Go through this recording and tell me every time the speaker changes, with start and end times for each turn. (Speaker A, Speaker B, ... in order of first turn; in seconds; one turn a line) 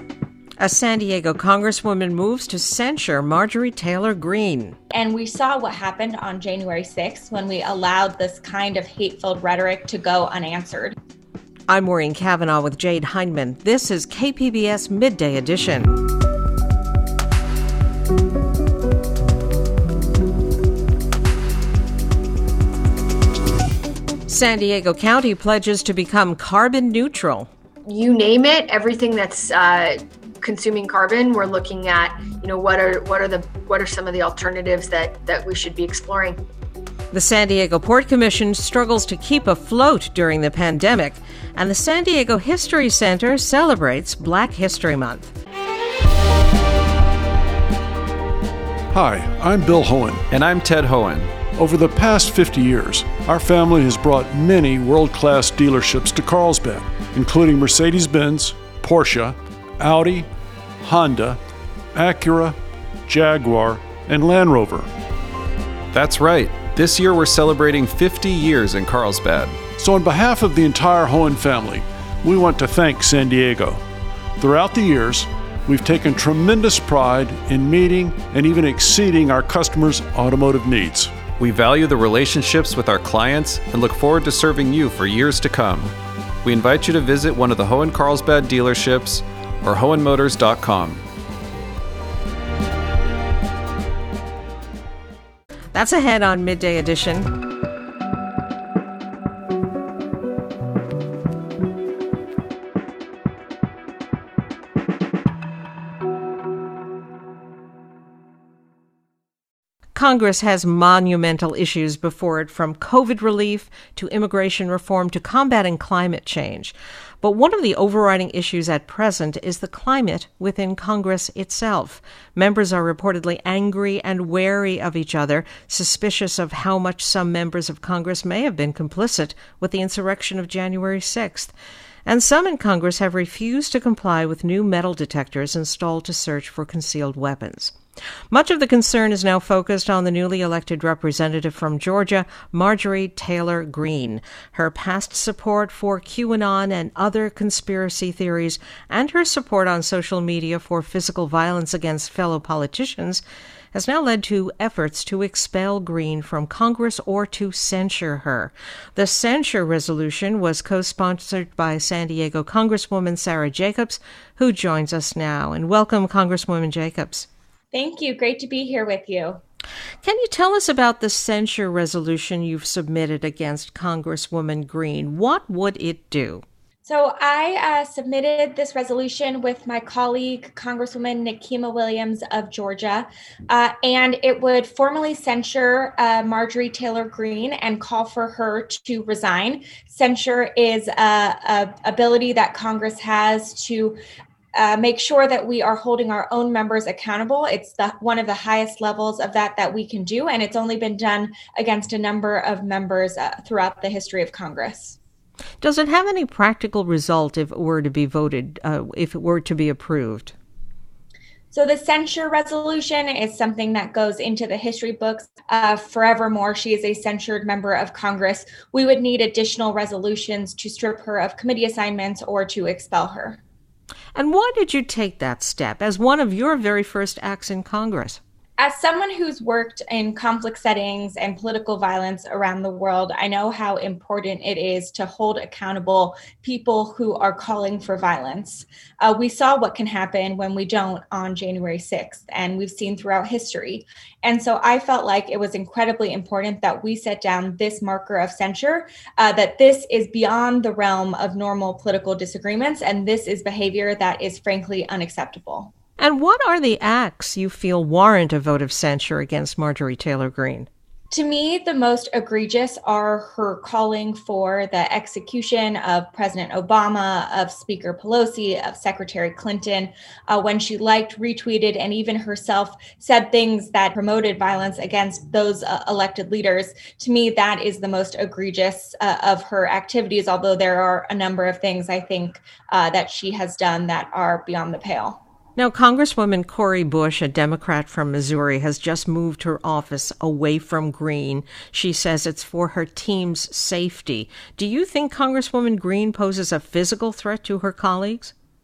Speaker A: 0.6-4.8
Speaker B: 4.9-10.9
Speaker A: 11.7-16.0
Speaker A: 24.3-27.5
Speaker C: 27.9-36.4
Speaker A: 37.1-45.3
Speaker D: 48.9-50.2
Speaker E: 50.3-51.4
Speaker D: 51.5-60.3
Speaker D: 60.8-61.4
Speaker D: 61.9-64.9
Speaker E: 65.9-69.6
Speaker D: 69.8-73.8
Speaker D: 74.4-81.1
Speaker E: 81.4-91.0
Speaker A: 95.7-97.3
Speaker A: 109.9-131.5
Speaker A: 132.0-137.8
Speaker A: 138.3-167.3
Speaker B: 167.7-169.4
Speaker A: 170.0-176.4
Speaker B: 176.8-194.0
Speaker B: 194.5-205.0
Speaker A: 205.6-210.3
Speaker B: 211.5-223.4
Speaker A: 224.1-228.2
Speaker B: 228.6-255.7
Speaker A: 256.0-260.7
Speaker B: 261.1-285.2
Speaker A: 285.6-298.3